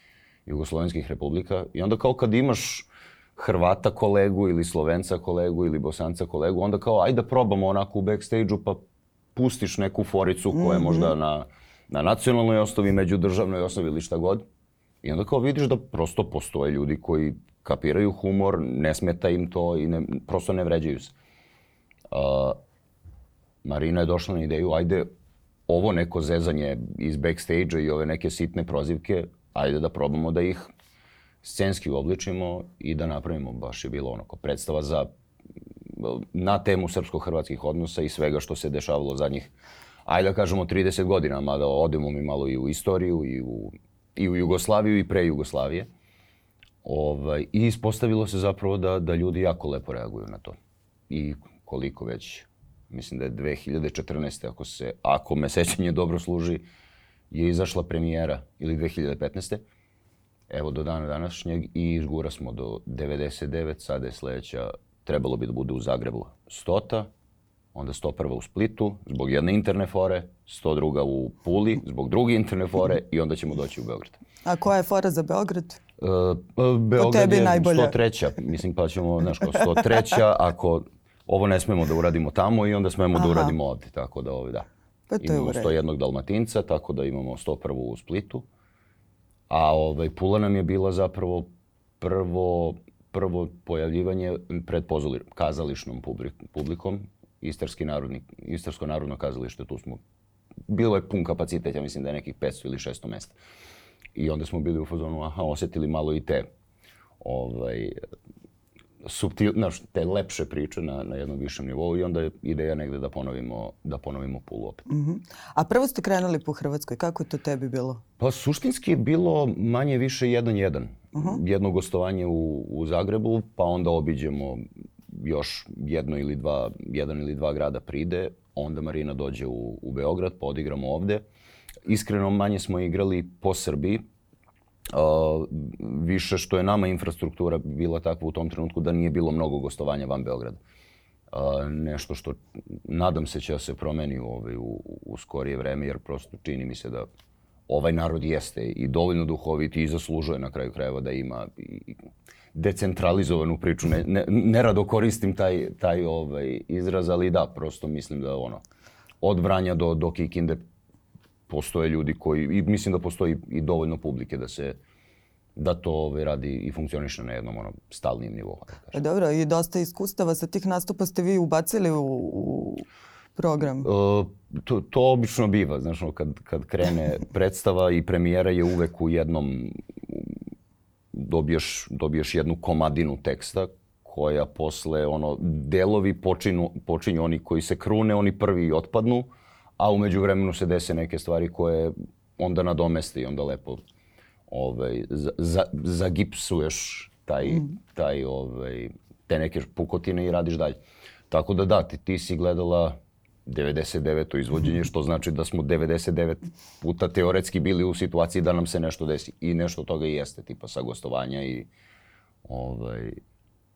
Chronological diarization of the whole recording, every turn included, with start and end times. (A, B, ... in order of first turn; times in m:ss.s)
0:00.4-0:08.8 A
0:09.3-0:14.4 A
0:10.5-0:11.1 B
0:15.0-0:21.1 A
0:22.1-0:22.6 A
0:23.6-0:25.1 A
0:25.7-0:30.7 A
0:31.4-0:35.1 A
0:35.9-0:39.5 A
0:40.0-0:45.9 A
0:46.8-0:50.6 A
0:51.1-0:56.6 A
0:57.3-0:59.6 A
1:00.5-1:07.1 A
1:07.7-1:14.2 A
1:14.4-1:15.8 B
1:16.0-1:24.7 A
1:17.0-1:18.0 B
1:23.1-1:23.5 B
1:25.1-1:25.8 B
1:25.2-1:28.4 A
1:29.5-1:31.5 A
1:32.0-1:40.0 A
1:40.7-1:43.4 A
1:44.1-1:46.5 A
1:47.2-1:48.0 A
1:49.0-1:54.8 A
1:54.9-1:58.0 B
1:58.2-2:11.2 A
2:01.1-2:01.4 B
2:11.8-2:14.0 A
2:14.9-2:20.6 A
2:21.3-2:27.1 A
2:27.7-2:32.0 A
2:32.5-2:38.6 A
2:39.2-2:40.6 A
2:41.5-2:44.8 A
2:45.6-2:49.0 A
2:48.9-2:53.9 B
2:53.8-3:00.4 A
3:01.1-3:13.8 A
3:14.5-3:20.8 A
3:21.3-3:31.7 A
3:32.4-3:33.2 A